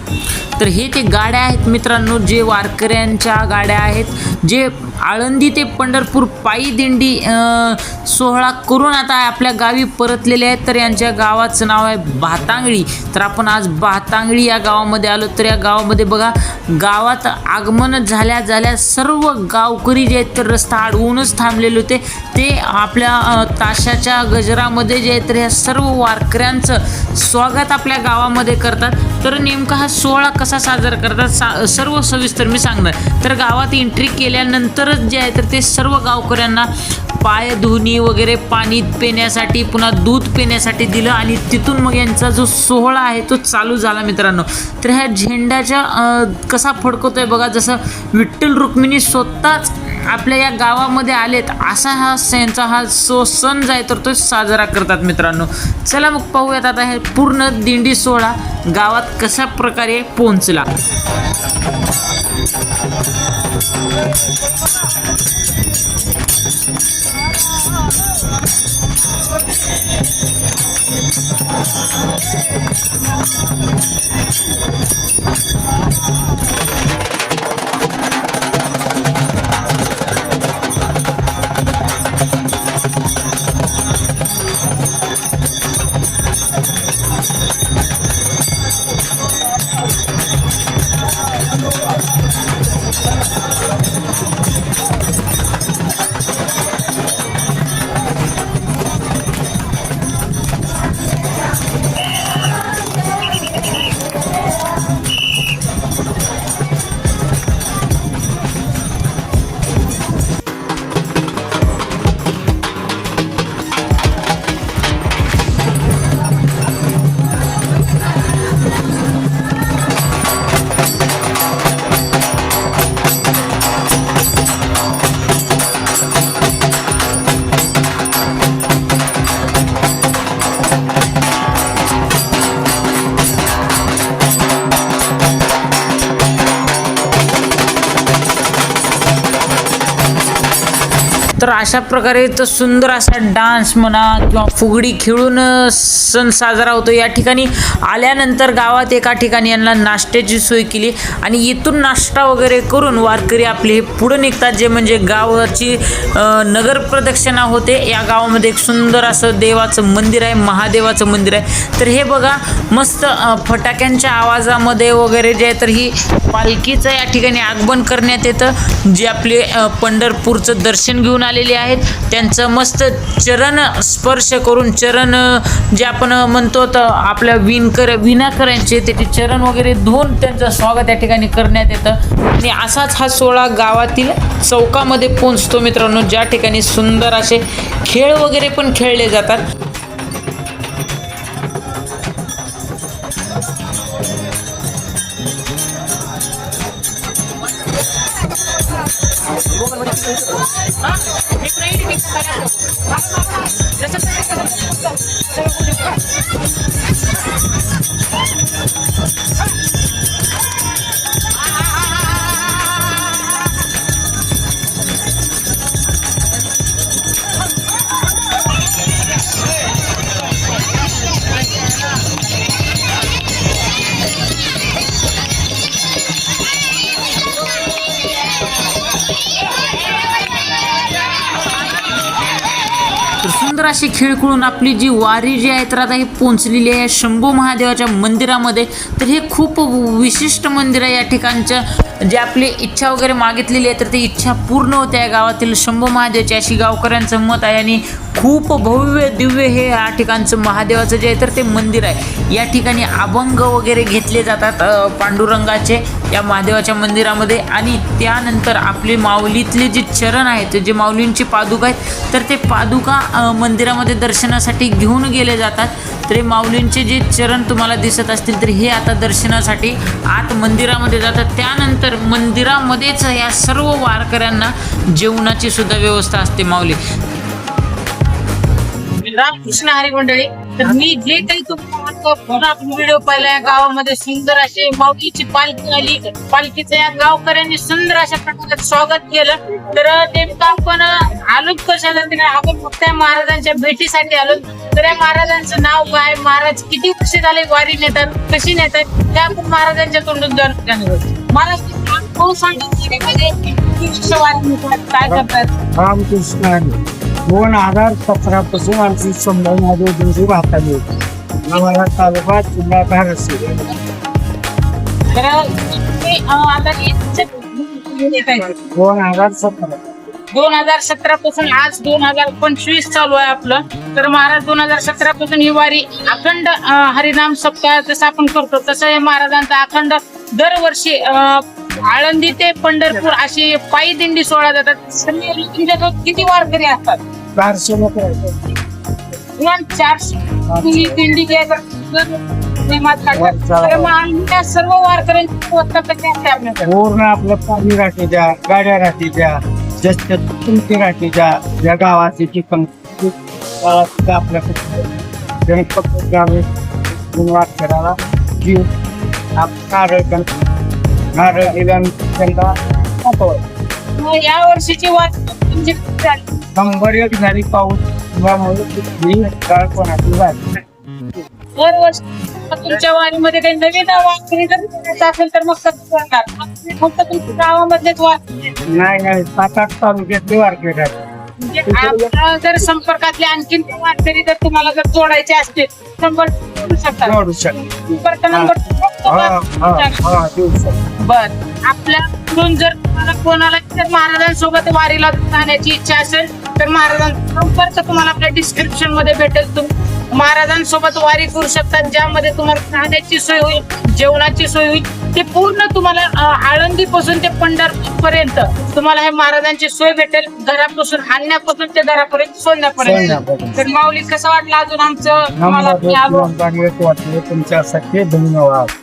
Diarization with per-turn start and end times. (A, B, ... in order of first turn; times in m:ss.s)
0:00.6-0:36.7 A
0:37.2-1:00.7 A
2:21.4-3:09.4 A
3:21.4-3:22.5 B
3:53.2-4:36.8 A
4:38.9-5:05.6 B
5:05.1-5:10.9 C
5:11.4-5:13.7 C
5:15.1-5:18.7 B
5:18.7-5:19.9 C
5:20.3-5:37.0 B
5:37.4-5:38.4 C
5:39.4-5:46.7 B
5:40.5-5:41.0 C
5:43.1-5:43.9 C
5:46.6-5:55.0 C
5:55.5-5:56.5 C
5:57.1-5:58.7 C
5:59.4-6:00.3 C
6:01.1-6:03.4 C
6:04.0-6:06.4 B
6:06.6-6:10.6 C
6:11.6-6:18.2 B
6:18.6-6:21.0 C
6:21.4-6:30.0 B
6:21.7-6:22.1 C
6:27.0-6:27.6 C
6:29.1-6:30.8 C
6:31.0-6:56.3 B
6:52.8-6:53.6 C
6:55.4-6:58.7 C